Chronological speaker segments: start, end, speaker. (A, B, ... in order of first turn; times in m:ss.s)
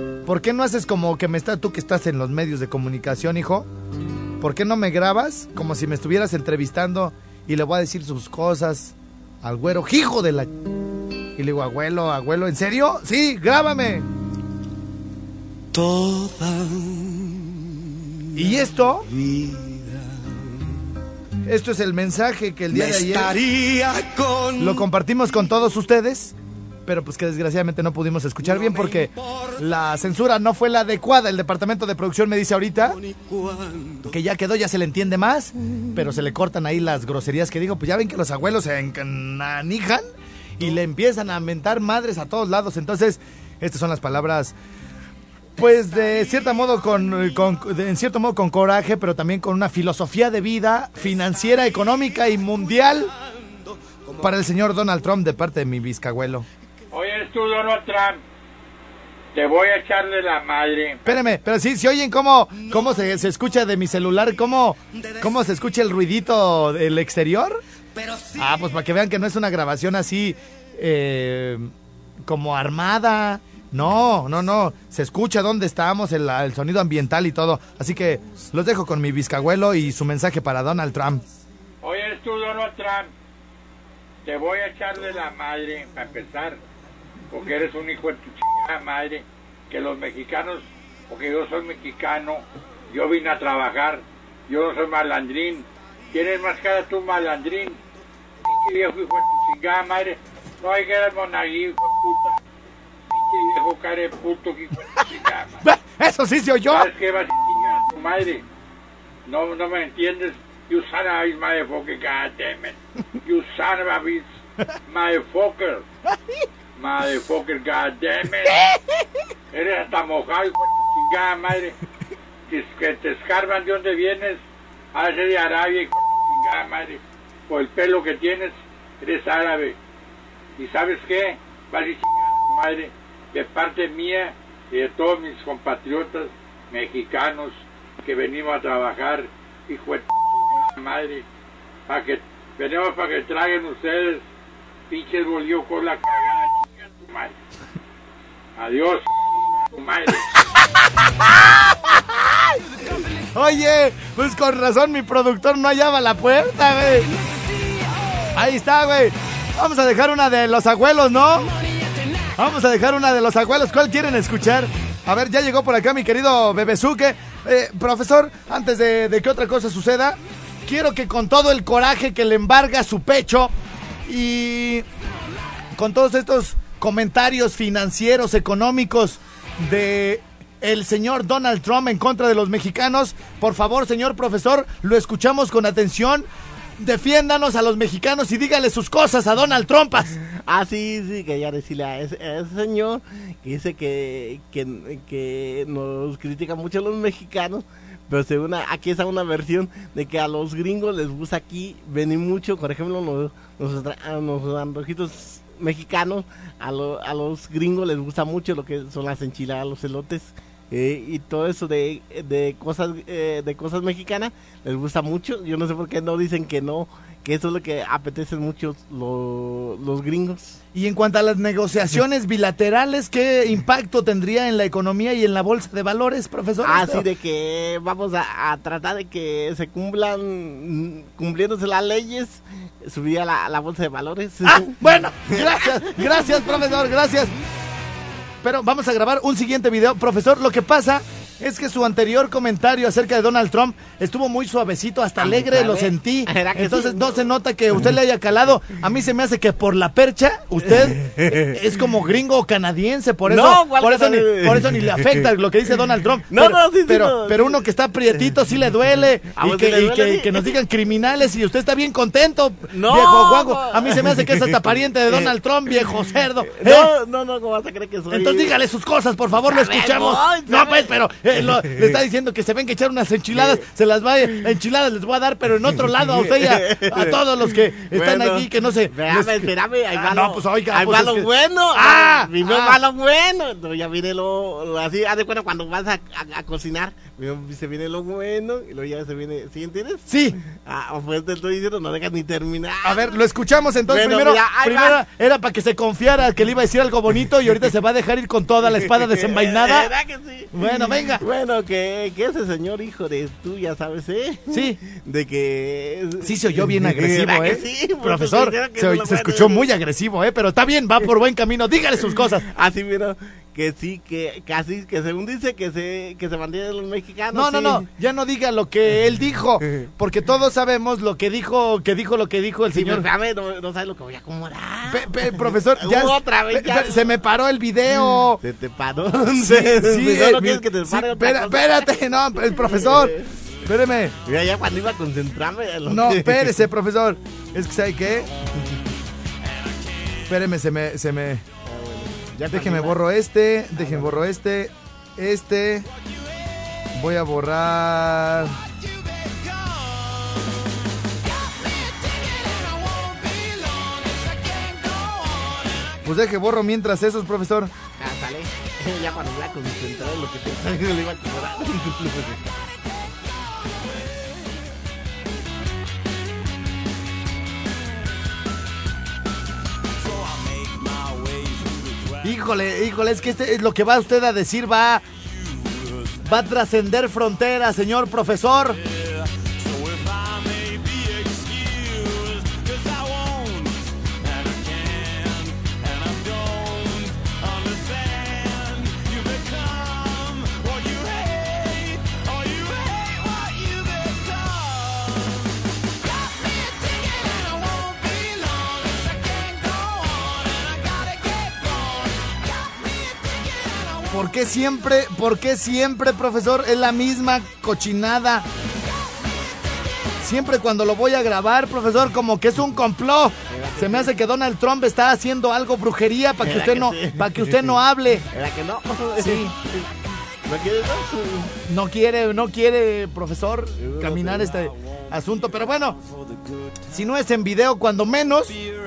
0:00.2-0:03.7 A
0:04.4-0:10.5 A
0:11.4-0:14.1 A
0:15.7-0:17.5 B
0:18.3-0:19.1 A
0:19.2-0:20.0 B
0:21.4-0:23.4 A
0:22.7-0:24.8 B
0:24.6-0:26.3 A
0:26.8-0:33.0 A
0:33.1-0:34.0 B
0:34.0-0:40.0 A
0:40.6-0:44.5 A
0:45.6-0:53.1 A
0:54.2-0:56.4 A
0:56.9-0:58.2 C
0:59.3-1:01.0 C
1:01.0-1:07.6 A
1:08.0-1:08.3 B
1:08.4-1:11.7 A
1:12.2-1:21.2 A
1:21.8-1:23.1 C
1:24.2-1:26.6 C
1:27.3-1:37.8 C
1:38.4-1:42.4 C
1:43.1-1:45.6 C
1:45.6-1:46.9 A
1:46.7-1:48.4 C
1:49.2-1:54.2 C
1:54.9-1:55.8 C
1:56.8-1:58.6 C
1:59.5-2:01.7 C
2:02.5-2:04.4 C
2:04.9-2:09.8 C
2:10.6-2:21.2 C
2:21.9-2:24.2 C
2:24.9-2:27.3 C
2:28.6-2:29.1 C
2:29.7-2:30.4 C
2:31.2-2:32.6 A
2:33.2-2:37.1 A
2:38.3-2:41.5 A
2:42.4-2:53.5 A
2:54.0-2:54.8 A
2:55.7-3:06.3 A
3:06.8-3:10.1 A
3:10.3-3:40.6 D
3:40.7-3:47.0 A
3:46.6-3:56.3 D
3:54.4-3:57.3 A
3:58.4-4:26.9 A
4:05.2-4:07.3 D
4:10.7-4:11.6 D
4:13.3-4:15.3 D
4:16.3-4:17.7 D
4:19.3-4:20.6 D
4:22.7-4:25.3 D
4:26.4-4:28.5 D
4:28.1-4:42.8 A
4:29.4-4:31.9 D
4:33.3-4:33.6 D
4:36.0-4:53.1 D
4:50.1-4:50.4 A
4:52.8-4:59.9 A
4:53.9-4:55.0 D
4:58.9-5:09.7 D
5:00.5-5:01.2 A
5:04.5-5:04.8 A
5:06.2-5:12.4 A
5:12.4-5:17.9 D
5:17.3-5:23.1 A
5:22.7-5:27.1 D
5:24.9-5:28.4 A
5:28.4-5:32.0 D
5:29.4-5:34.1 A
5:32.5-5:33.4 D
5:34.2-5:36.6 D
5:35.8-5:38.5 A
5:40.2-5:41.4 A
5:41.6-5:43.0 D
5:42.5-5:45.9 A
5:43.8-5:44.2 D
5:46.9-5:48.6 A
5:56.0-5:57.7 A
5:58.0-6:02.5 D
6:12.2-6:15.0 A
6:16.2-6:18.8 A
6:44.1-6:48.5 A
6:50.2-6:58.2 A
6:53.5-6:54.1 D
6:56.4-6:57.8 D
6:58.3-6:59.9 D
6:59.2-6:59.5 A
7:00.4-7:01.5 D
7:01.6-7:06.0 A
7:03.8-7:04.6 D
7:06.8-7:08.6 A